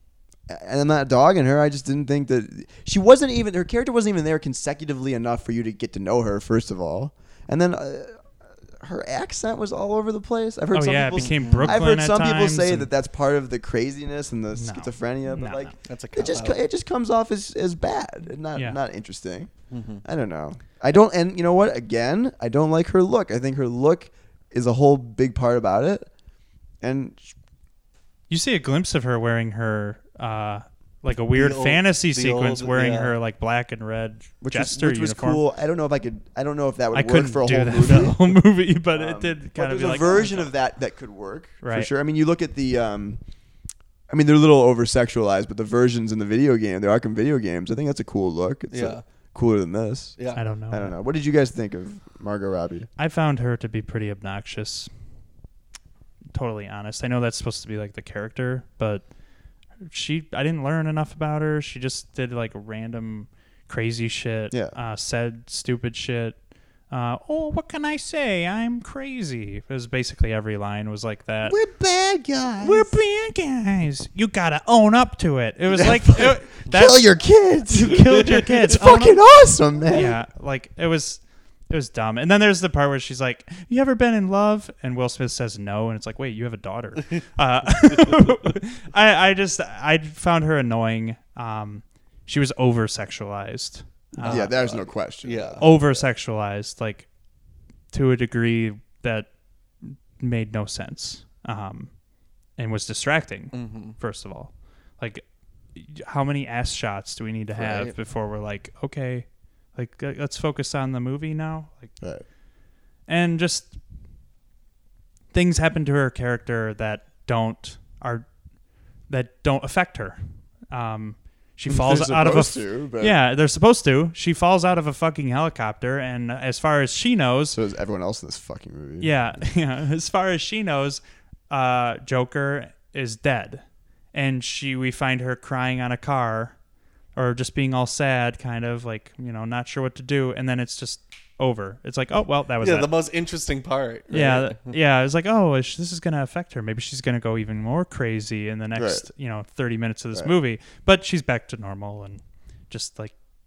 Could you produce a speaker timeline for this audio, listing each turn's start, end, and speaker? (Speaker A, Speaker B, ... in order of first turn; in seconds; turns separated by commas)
Speaker A: 0.5-19.5, Speaker B: 10.7-12.9, Speaker C: 11.2-11.8, Speaker B: 14.5-15.7, Speaker C: 15.8-16.6, Speaker C: 19.7-20.0, Speaker A: 20.0-26.1, Speaker A: 26.8-27.3, Speaker B: 28.3-35.4, Speaker C: 31.3-33.1, Speaker A: 34.4-38.4, Speaker B: 36.9-40.5, Speaker A: 38.9-43.2, Speaker B: 41.6-41.9, Speaker A: 44.1-50.2, Speaker C: 48.7-49.0, Speaker C: 50.2-50.4, Speaker B: 50.3-50.9, Speaker A: 50.7-52.9, Speaker B: 53.0-54.9, Speaker B: 56.3-59.0, Speaker B: 59.8-66.4, Speaker A: 64.5-64.8, Speaker B: 66.9-71.6, Speaker A: 71.4-72.9, Speaker B: 72.6-77.1, Speaker A: 75.7-80.1, Speaker B: 77.7-79.2, Speaker B: 79.9-94.5, Speaker C: 87.9-88.2, Speaker C: 94.2-95.8, Speaker A: 94.2-96.0, Speaker B: 95.6-97.1, Speaker B: 97.9-102.0, Speaker B: 102.5-111.9, Speaker C: 103.5-104.0, Speaker C: 107.5-107.9, Speaker A: 112.0-112.2, Speaker B: 113.0-113.8, Speaker B: 115.3-118.3, Speaker B: 119.1-127.6, Speaker A: 121.7-123.2, Speaker A: 127.5-129.1, Speaker B: 129.0-136.6, Speaker B: 137.1-142.9, Speaker C: 142.6-144.8, Speaker B: 144.1-153.2, Speaker A: 148.7-149.1